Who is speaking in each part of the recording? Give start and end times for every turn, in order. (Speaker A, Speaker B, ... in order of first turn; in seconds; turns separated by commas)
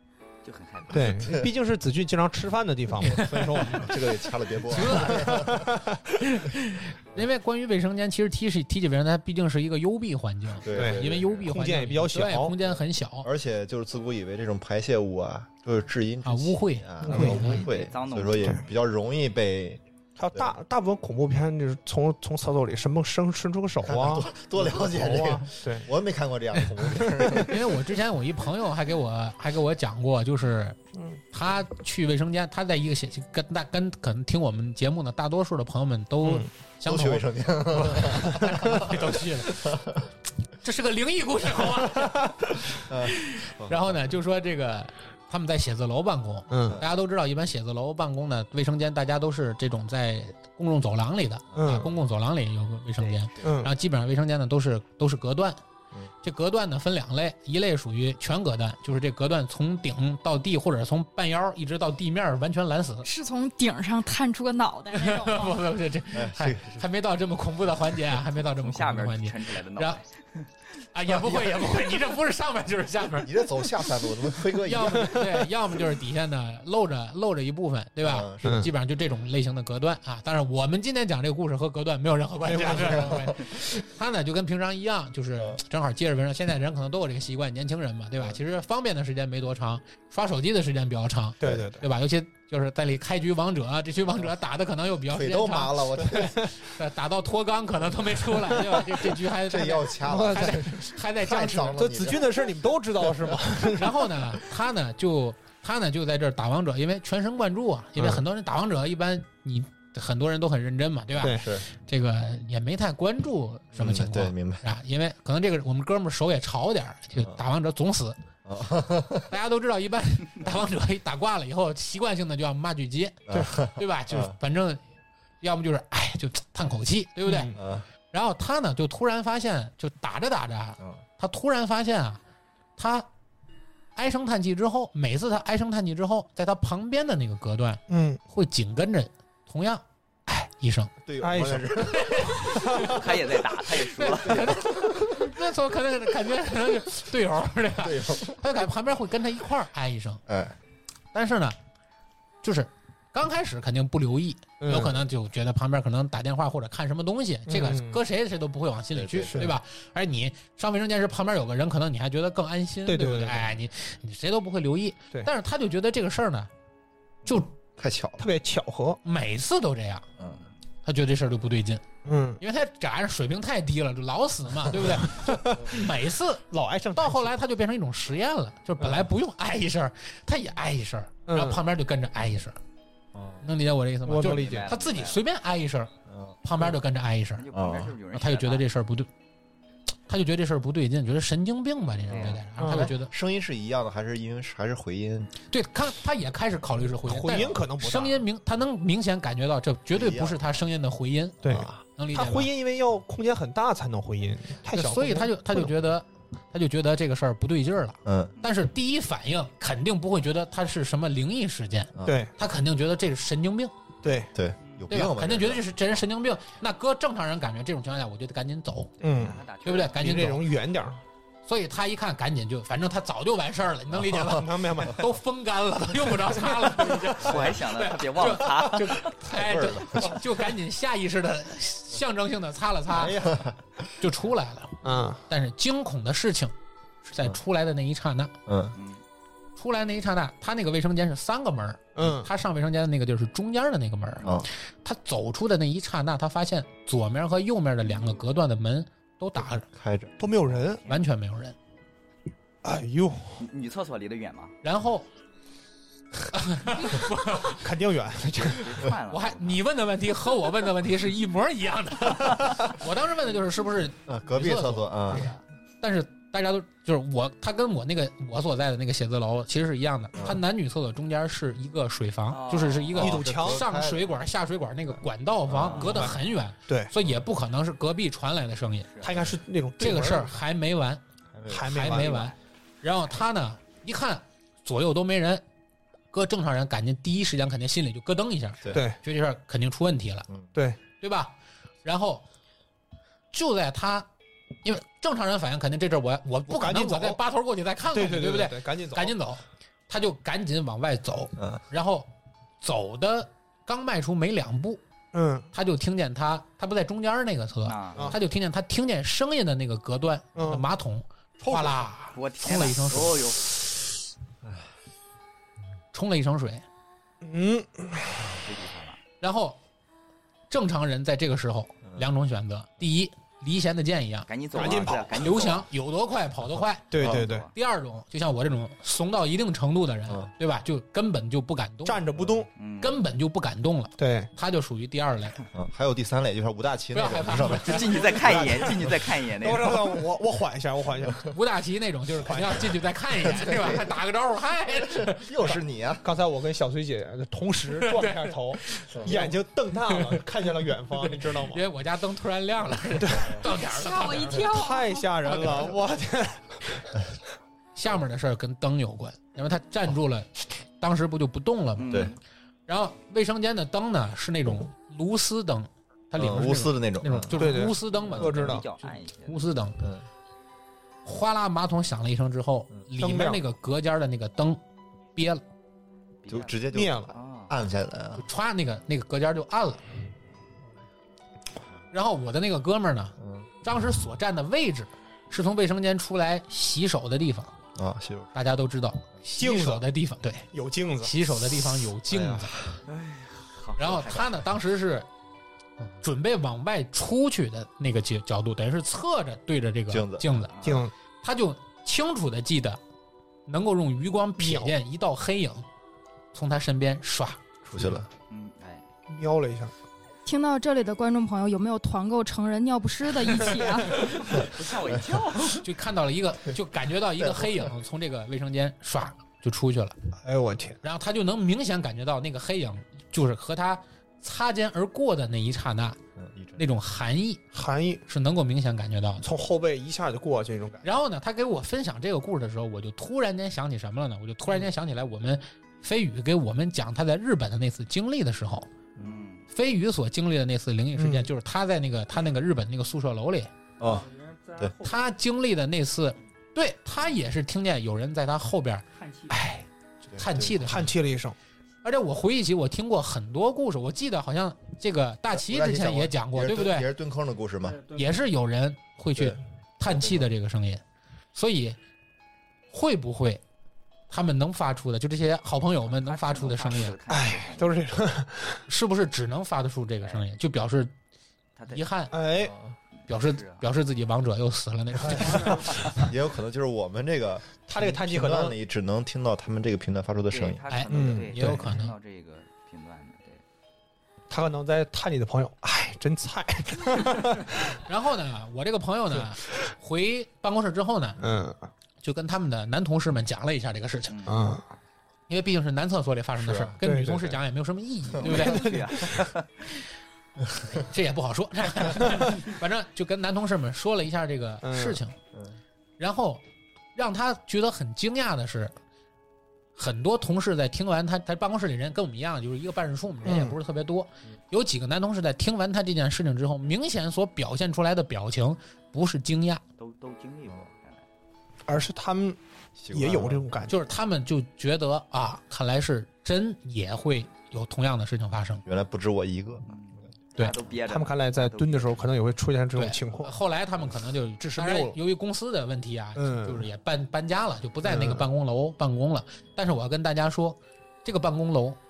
Speaker A: 0.4-1.3, Speaker B: 0.9-4.0, Speaker C: 3.0-3.9, Speaker D: 3.1-5.8, Speaker C: 4.7-5.6, Speaker B: 4.9-6.0, Speaker C: 6.2-13.3, Speaker D: 10.6-11.5, Speaker B: 10.7-12.5, Speaker D: 13.2-19.8, Speaker C: 16.2-17.6, Speaker B: 17.0-17.6, Speaker A: 17.2-18.6, Speaker B: 20.2-25.9, Speaker D: 23.8-27.8, Speaker C: 27.2-30.8, Speaker C: 31.3-39.8, Speaker B: 36.2-36.5, Speaker D: 36.8-40.0, Speaker C: 40.6-55.6, Speaker D: 42.7-44.0, Speaker B: 46.5-46.8, Speaker D: 51.5-51.8, Speaker B: 51.5-51.9, Speaker B: 53.4-53.7, Speaker C: 56.2-63.1, Speaker E: 63.0-65.6, Speaker C: 64.9-70.0, Speaker D: 66.1-66.8, Speaker A: 68.6-70.5, Speaker C: 70.9-73.6, Speaker D: 73.2-75.5, Speaker C: 74.5-101.8, Speaker D: 78.0-78.7, Speaker B: 78.4-78.7, Speaker B: 82.4-83.3, Speaker D: 82.7-83.3, Speaker B: 91.4-91.8, Speaker D: 91.4-91.7, Speaker D: 95.1-96.5, Speaker D: 99.4-102.3, Speaker B: 100.0-100.9, Speaker B: 101.8-104.1, Speaker C: 103.7-118.2, Speaker B: 111.2-111.4, Speaker D: 111.2-111.7, Speaker D: 113.7-114.6, Speaker D: 118.5-119.3, Speaker C: 119.3-124.8, Speaker D: 123.3-124.3, Speaker C: 125.4-127.5, Speaker B: 127.2-127.6, Speaker D: 127.5-127.8, Speaker C: 128.1-132.2, Speaker C: 132.8-133.1, Speaker C: 133.9-140.9, Speaker B: 137.9-138.2, Speaker D: 141.0-142.8, Speaker B: 141.2-141.9, Speaker C: 141.9-142.9, Speaker B: 142.5-143.0, Speaker A: 142.8-144.6, Speaker C: 144.0-150.2, Speaker D: 144.4-145.2, Speaker D: 147.8-148.4, Speaker D: 150.3-150.6, Speaker C: 151.1-151.6, Speaker C: 152.4-166.5, Speaker B: 154.6-155.0, Speaker B: 157.5-158.0, Speaker D: 158.9-159.5, Speaker B: 162.8-163.6, Speaker D: 167.2-168.3, Speaker B: 168.2-169.0, Speaker C: 169.0-170.1, Speaker A: 170.2-170.5, Speaker C: 170.8-171.8, Speaker B: 172.0-172.4, Speaker C: 172.4-182.6, Speaker B: 175.1-175.8, Speaker B: 176.5-177.3, Speaker B: 178.8-179.1, Speaker B: 181.3-181.6, Speaker D: 183.1-183.4, Speaker C: 183.4-185.9, Speaker B: 184.0-184.7, Speaker A: 184.2-185.2, Speaker D: 186.1-186.4, Speaker C: 186.4-187.4, Speaker A: 187.3-188.7, Speaker D: 187.5-187.9, Speaker C: 188.1-189.1, Speaker C: 190.1-193.1, Speaker A: 192.1-192.4, Speaker D: 192.1-195.3, Speaker B: 192.6-192.9, Speaker C: 195.5-202.5, Speaker B: 197.1-198.2, Speaker D: 199.9-200.4, Speaker B: 201.4-205.7, Speaker D: 201.4-201.8, Speaker C: 204.7-213.7, Speaker D: 208.0-208.3, Speaker D: 211.9-212.2, Speaker B: 212.0-212.3, Speaker B: 214.0-214.3, Speaker D: 214.3-215.7, Speaker C: 214.9-218.9, Speaker A: 219.0-220.2, Speaker B: 219.0-219.4, Speaker C: 219.6-220.5, Speaker B: 219.9-221.0, Speaker C: 221.4-233.2, Speaker B: 224.2-225.0, Speaker A: 226.8-229.1, Speaker D: 229.2-230.2, Speaker D: 232.9-233.9, Speaker C: 234.0-236.5, Speaker B: 234.8-235.2, Speaker C: 237.0-238.3, Speaker D: 238.5-238.7, Speaker A: 238.7-239.0, Speaker C: 239.6-249.7, Speaker B: 241.9-242.3, Speaker D: 244.2-244.5, Speaker A: 247.9-248.2, Speaker D: 249.6-250.2, Speaker B: 250.2-250.8, Speaker A: 250.5-251.0, Speaker C: 250.8-251.5, Speaker B: 252.6-253.4, Speaker A: 253.4-254.5, Speaker C: 254.6-255.1, Speaker C: 256.1-257.8, Speaker B: 257.6-258.8, Speaker A: 258.3-259.6, Speaker C: 259.1-278.9, Speaker D: 264.1-265.3, Speaker A: 272.3-273.1, Speaker D: 272.9-274.2, Speaker B: 273.0-273.6, Speaker D: 275.5-276.2, Speaker B: 275.7-276.9, Speaker A: 278.9-279.2, Speaker B: 279.0-280.4, Speaker C: 279.8-281.0, Speaker D: 281.3-282.3, Speaker B: 281.5-282.2, Speaker C: 281.7-285.4, Speaker C: 286.1-290.3, Speaker C: 291.0-292.2, Speaker C: 293.3-294.1, Speaker C: 294.6-302.1, Speaker B: 296.5-297.2, Speaker B: 297.9-299.1, Speaker C: 302.6-304.8, Speaker B: 305.1-305.5, Speaker C: 305.5-313.4, Speaker A: 307.6-308.1, Speaker B: 310.4-310.6, Speaker B: 311.4-311.8, Speaker A: 312.1-313.4, Speaker C: 315.9-316.6, Speaker B: 317.2-318.4, Speaker A: 318.4-319.0, Speaker C: 319.2-319.6, Speaker C: 320.5-332.0, Speaker A: 324.3-325.6, Speaker B: 324.5-325.6, Speaker B: 326.9-327.5, Speaker A: 327.0-327.5, Speaker B: 331.8-332.5, Speaker A: 332.5-333.0, Speaker C: 332.8-335.4, Speaker B: 334.0-334.3, Speaker D: 335.5-338.5, Speaker C: 336.9-338.1, Speaker A: 337.6-339.8, Speaker B: 338.1-341.3, Speaker C: 341.3-345.3, Speaker B: 342.2-342.7, Speaker D: 343.2-343.9, Speaker D: 344.8-346.0, Speaker B: 345.5-351.6, Speaker C: 347.7-350.2, Speaker C: 351.0-354.6, Speaker B: 352.9-353.4, Speaker E: 353.4-355.3, Speaker B: 354.3-356.9, Speaker C: 355.2-355.7, Speaker C: 357.7-362.1, Speaker A: 361.8-362.2, Speaker C: 362.7-369.8, Speaker D: 366.1-367.4, Speaker B: 367.4-368.6, Speaker A: 367.9-369.4, Speaker C: 371.0-374.6, Speaker B: 373.0-373.4, Speaker C: 375.1-375.4, Speaker A: 376.2-377.5, Speaker D: 376.3-378.2, Speaker B: 376.7-377.1, Speaker C: 378.2-379.8, Speaker C: 381.9-387.5, Speaker D: 383.2-383.5, Speaker D: 387.8-388.3, Speaker C: 388.3-390.5, Speaker B: 389.4-389.9, Speaker B: 390.5-391.1, Speaker C: 391.0-392.5, Speaker D: 392.1-392.8, Speaker A: 392.9-394.4, Speaker C: 393.8-395.1, Speaker C: 396.0-402.8, Speaker D: 399.9-400.3, Speaker A: 400.4-400.8, Speaker B: 400.6-400.9, Speaker C: 403.5-405.6, Speaker B: 404.4-404.7, Speaker C: 406.3-408.0, Speaker D: 407.7-408.1, Speaker A: 408.3-408.8, Speaker B: 409.1-409.7, Speaker E: 410.2-414.4, Speaker A: 413.9-415.6, Speaker C: 415.5-419.9, Speaker D: 417.2-417.7, Speaker B: 420.2-420.8, Speaker C: 420.8-426.0, Speaker D: 426.2-426.6, Speaker C: 426.6-427.4, Speaker B: 427.5-428.0, Speaker C: 428.1-429.2, Speaker B: 429.2-430.9, Speaker C: 430.8-438.7, Speaker A: 439.0-439.5, Speaker C: 439.5-443.5, Speaker B: 441.0-441.3, Speaker D: 443.8-444.1, Speaker F: 443.8-445.0, Speaker C: 444.8-450.9, Speaker F: 448.9-449.4, Speaker D: 450.1-450.8, Speaker B: 450.6-451.4, Speaker C: 451.8-456.9, Speaker D: 455.3-457.8, Speaker F: 457.6-458.1, Speaker C: 457.9-460.8, Speaker D: 459.1-460.3, Speaker C: 461.3-461.8, Speaker C: 462.7-463.4, Speaker C: 464.1-467.0, Speaker A: 465.8-467.8, Speaker B: 467.1-468.6, Speaker C: 468.7-470.9, Speaker A: 470.0-470.3, Speaker A: 471.6-471.8, Speaker C: 471.7-472.1, Speaker B: 472.1-472.5, Speaker D: 472.4-472.7, Speaker A: 473.0-473.7, Speaker C: 473.1-476.1, Speaker B: 475.0-475.5, Speaker D: 475.9-480.7, Speaker B: 477.7-478.5, Speaker A: 480.3-483.4, Speaker C: 480.7-481.9, Speaker B: 480.9-481.7, Speaker B: 484.3-487.5, Speaker C: 487.9-491.2, Speaker B: 491.2-491.7, Speaker C: 492.0-494.3, Speaker A: 494.1-494.4, Speaker B: 494.3-494.6, Speaker C: 495.3-499.1, Speaker D: 496.4-496.7, Speaker B: 496.8-497.4, Speaker A: 498.2-499.7, Speaker B: 498.3-498.8, Speaker C: 500.9-505.1, Speaker B: 504.6-505.0, Speaker C: 506.0-506.4, Speaker C: 506.9-508.7, Speaker C: 509.8-519.6, Speaker B: 513.2-513.6, Speaker A: 519.8-521.0, Speaker B: 521.7-522.4, Speaker D: 522.8-523.5, Speaker B: 522.9-523.7, Speaker C: 523.7-528.6, Speaker D: 528.6-529.7, Speaker A: 529.7-532.1, Speaker B: 530.4-533.3, Speaker C: 532.7-541.8, Speaker B: 534.5-534.9, Speaker B: 536.1-536.7, Speaker B: 537.8-538.3